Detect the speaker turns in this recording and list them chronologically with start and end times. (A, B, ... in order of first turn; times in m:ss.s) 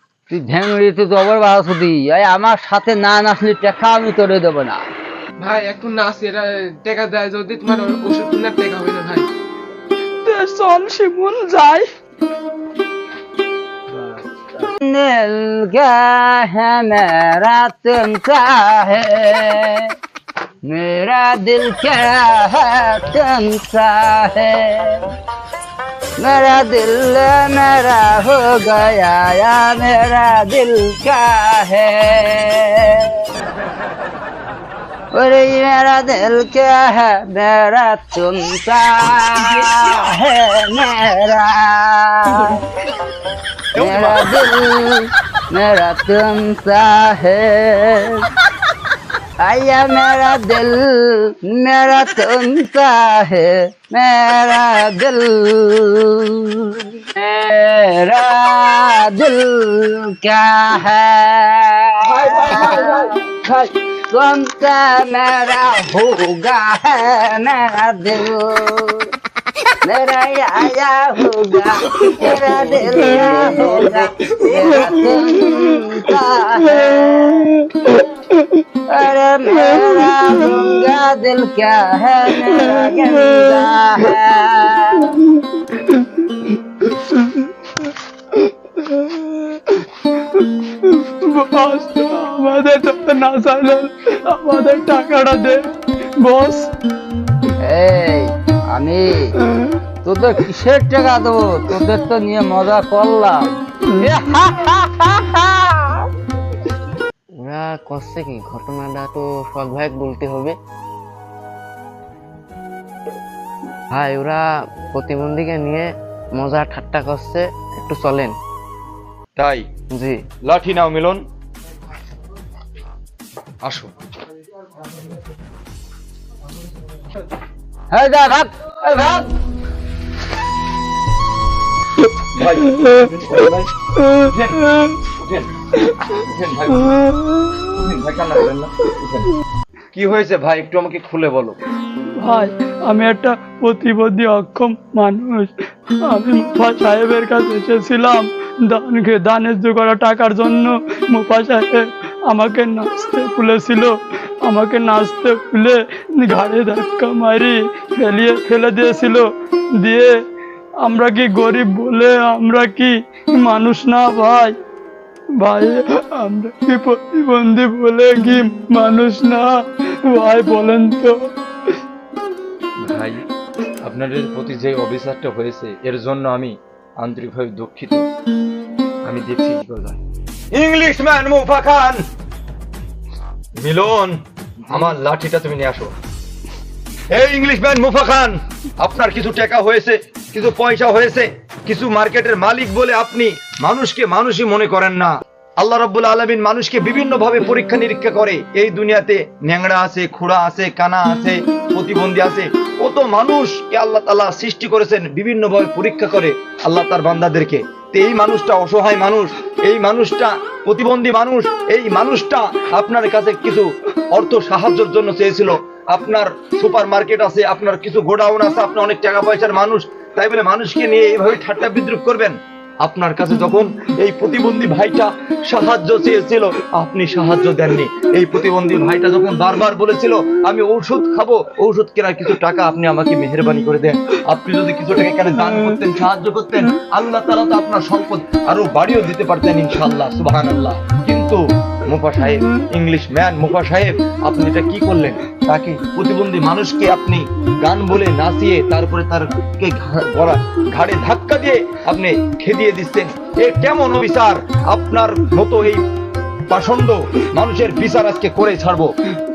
0:00.3-0:04.9 A
0:05.4-0:09.2 B
0:10.2-0:11.9 C
0:14.8-0:19.9 A
0:20.6-0:25.1 A
0:26.2-0:33.2 A
0:35.1-0:42.6 A
0:43.7-0:48.3 A
0:49.4-1:09.1 A
1:09.8-1:18.0 A
1:18.9-1:25.2 A
1:27.1-1:27.4 C
1:28.8-1:29.6 C
1:30.9-1:36.7 C
1:37.6-1:39.3 A
1:40.0-1:46.1 A
1:47.4-1:50.6 D
1:53.9-1:58.3 D
1:59.4-1:59.6 E
1:59.9-2:00.2 D
2:00.4-2:01.2 E
2:03.6-2:03.9 E
2:07.9-2:09.3 A
2:12.3-2:13.7 E
2:14.2-2:17.0 E
2:17.5-2:19.3 E
2:19.9-2:21.6 E
2:22.2-2:25.5 C
2:26.0-2:40.2 C
2:40.8-2:44.6 C
2:45.4-2:51.3 C
2:52.8-2:53.2 E
2:53.8-2:58.0 E
2:59.0-3:00.0 E
3:00.5-3:02.0 E
3:03.6-3:05.9 E
3:07.1-4:15.8 E
4:16.5-4:18.9 E